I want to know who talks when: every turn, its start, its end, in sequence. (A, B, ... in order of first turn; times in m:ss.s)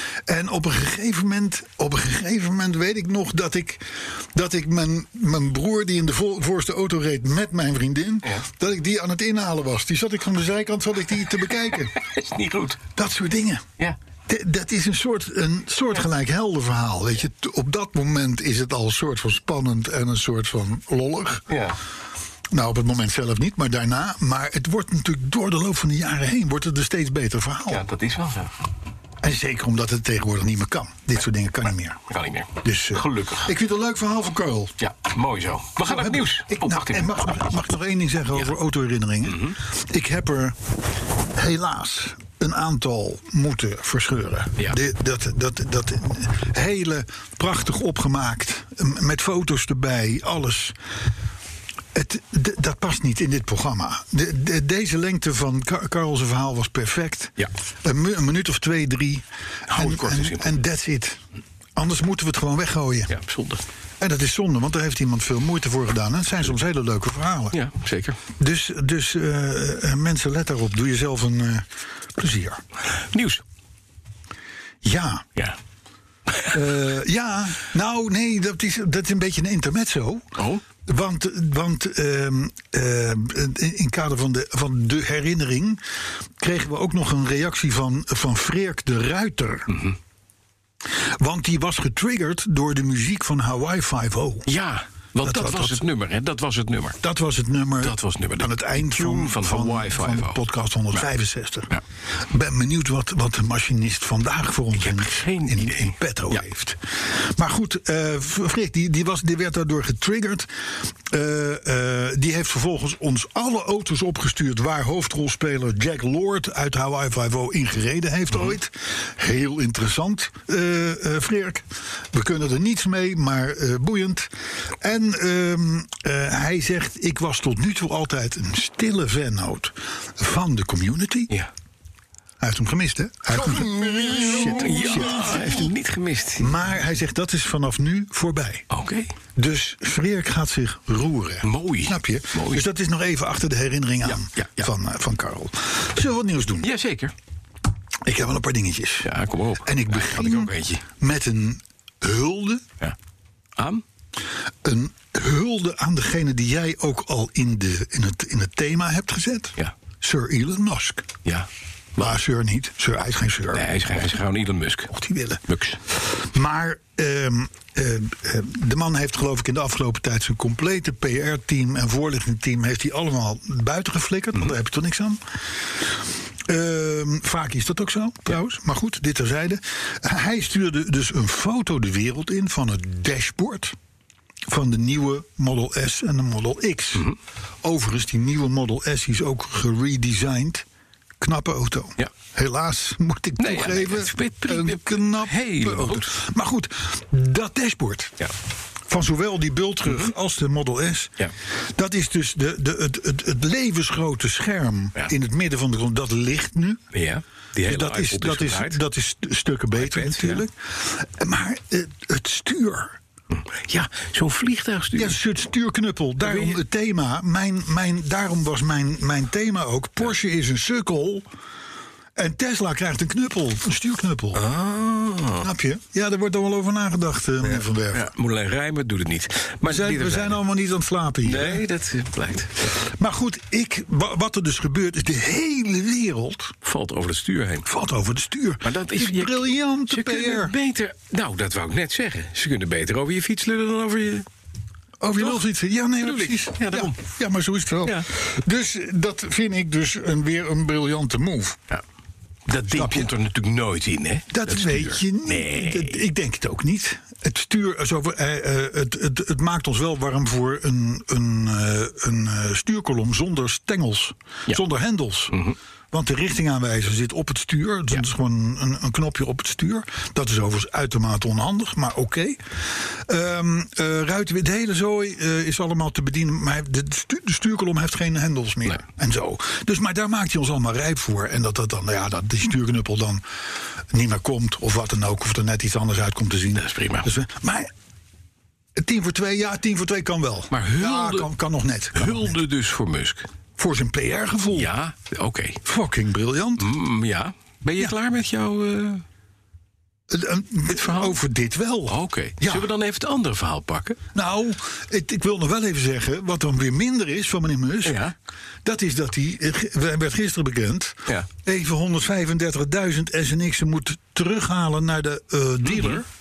0:00.3-0:11.9 A
0:11.7-0:12.8 B
0:12.9-0:13.6 A
0:14.3-0:21.4 A
0:21.5-0:21.8 B
0:22.5-0:27.8 A
0:27.7-0:28.5 B
0:29.2-0:32.0 A
0:32.1-0:33.5 B
0:32.6-0:34.7 A
0:34.8-0:37.4 B
0:35.8-0:40.6 A
0:39.2-0:39.6 B
0:41.3-0:50.8 A
0:51.9-1:01.2 A
0:59.7-1:00.5 B
1:01.8-1:03.2 A
1:03.1-1:03.6 B
1:04.0-1:07.6 A
1:07.5-1:08.2 B
1:08.4-1:12.6 A
1:13.1-1:13.4 B
1:14.8-1:15.2 A
1:16.5-1:20.3 A
1:20.4-1:20.6 B
1:20.8-1:25.8 A
1:26.4-1:29.7 A
1:29.7-1:30.0 B
1:31.2-1:34.5 A
1:34.4-1:37.0 B
1:35.2-1:35.8 A
1:37.0-1:41.7 A
1:37.8-1:40.4 B
1:42.3-2:11.3 A
1:44.7-1:46.4 B
2:12.4-2:15.7 A
2:13.4-2:16.5 B
2:16.4-2:18.6 A
2:18.7-2:19.1 B
2:19.4-2:26.7 A
2:21.4-2:22.6 B
2:24.0-2:24.7 B
2:26.6-2:27.1 B
2:28.0-2:29.1 A
2:29.0-2:30.8 B
2:29.6-2:32.7 A
2:33.6-2:33.8 B
2:34.6-2:41.1 A
2:41.2-2:42.2 B
2:42.0-2:44.0 A
2:43.5-2:44.9 B
2:44.9-2:45.4 A
2:45.5-2:45.8 B
2:46.0-2:55.2 A
2:55.8-3:03.8 A
3:04.5-3:07.1 A
3:07.6-3:10.6 A
3:11.2-3:18.2 A
3:13.4-3:16.1 B
3:18.9-3:21.1 A
3:21.7-3:26.8 A
3:26.9-3:28.8 B
3:27.6-3:33.0 A
3:29.8-3:30.4 B
3:33.3-3:35.2 B
3:35.0-3:41.2 A
3:36.2-3:36.6 B
3:42.2-3:44.4 A
3:44.3-3:45.5 B
3:45.4-3:48.1 A
3:47.4-3:50.4 B
3:49.6-3:51.6 A
3:51.2-3:52.7 B
3:52.7-3:56.5 A
3:56.6-3:57.6 B
3:57.6-4:00.5 A
3:58.6-4:04.2 B
4:05.0-4:11.6 A
4:06.0-4:07.0 B
4:12.5-4:16.0 B
4:12.7-4:13.1 A
4:14.3-4:43.2 A
4:25.3-4:25.6 B
4:43.9-4:47.7 A
4:46.6-4:47.1 B
4:48.8-4:52.4 A
4:50.5-4:51.3 B
4:51.9-4:53.3 B
4:53.6-4:54.7 A
4:54.5-4:55.6 B
4:55.6-4:56.7 A
4:56.6-4:59.0 B
5:00.1-5:02.7 A
5:00.7-5:01.2 B
5:01.9-5:04.0 B
5:04.1-5:08.0 A
5:07.8-5:08.1 B
5:08.6-5:16.1 A
5:15.6-5:16.0 B